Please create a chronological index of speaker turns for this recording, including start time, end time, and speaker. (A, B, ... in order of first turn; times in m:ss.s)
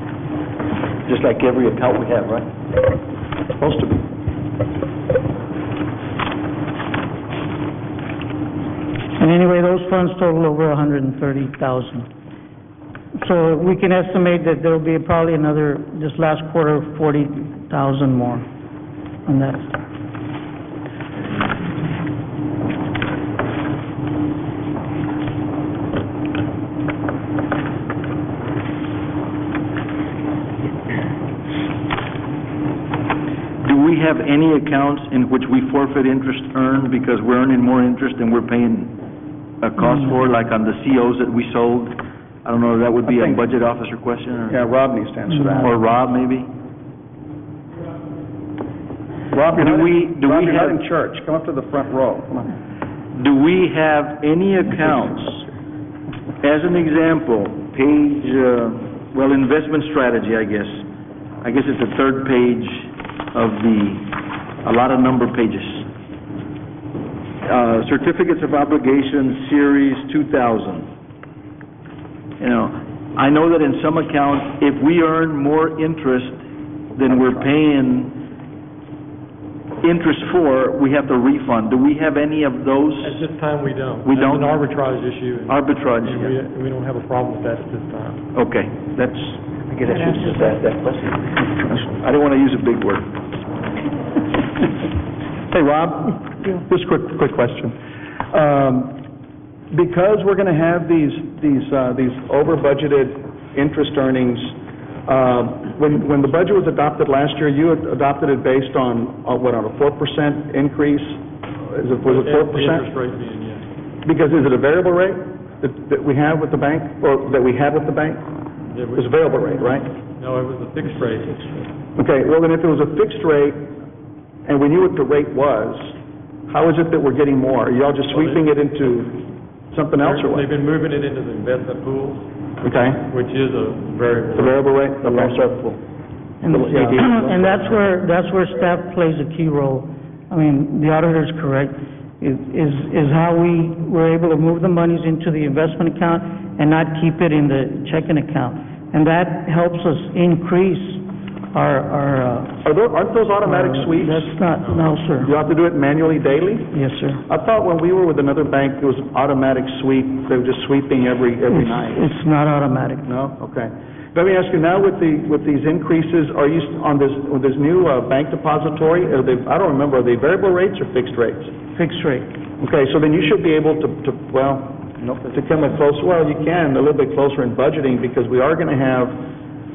0:01.0-0:02.5 A
0:03.6-0:04.0 B
0:09.2-0:12.1 C
0:13.2-0:18.4 C
0:19.2-0:19.7 C
0:33.6-0:38.9 A
0:39.6-0:44.6 A
0:39.8-0:40.1 C
0:43.0-0:43.4 B
0:44.5-0:45.8 B
0:45.3-0:45.7 C
0:45.6-0:46.5 A
0:49.3-0:52.5 B
0:49.6-0:50.8 A
0:53.1-0:55.4 A
0:56.4-1:00.8 A
1:01.4-1:04.1 A
1:04.6-1:05.9 A
1:07.4-1:10.9 A
1:12.4-1:16.4 A
1:16.9-1:18.1 A
1:19.8-1:23.2 A
1:23.0-1:28.2 D
1:24.0-1:24.5 A
1:25.5-1:26.3 A
1:28.3-1:33.0 A
1:35.5-1:37.8 B
1:38.3-1:39.0 B
1:39.7-1:52.9 B
1:52.0-1:53.7 D
1:54.0-1:58.2 B
1:58.7-1:59.3 D
1:58.9-1:59.9 B
2:00.2-2:01.4 D
2:00.8-2:01.7 C
2:02.0-2:03.7 B
2:04.4-2:06.0 B
2:06.5-2:10.4 B
2:08.1-2:08.4 D
2:10.0-2:14.6 D
2:12.6-2:13.0 B
2:14.3-2:15.4 B
2:15.0-2:15.8 A
2:16.4-2:32.6 C
2:16.4-2:17.6 A
2:32.6-2:34.3 B
2:33.4-2:35.3 C
2:34.6-2:34.9 D
2:35.2-2:42.0 B
2:36.7-2:37.2 C
2:41.5-2:43.1 C
2:43.0-2:51.5 B
2:51.7-2:52.3 C
2:52.6-2:54.8 B
2:55.0-2:55.4 A
2:55.3-2:59.2 B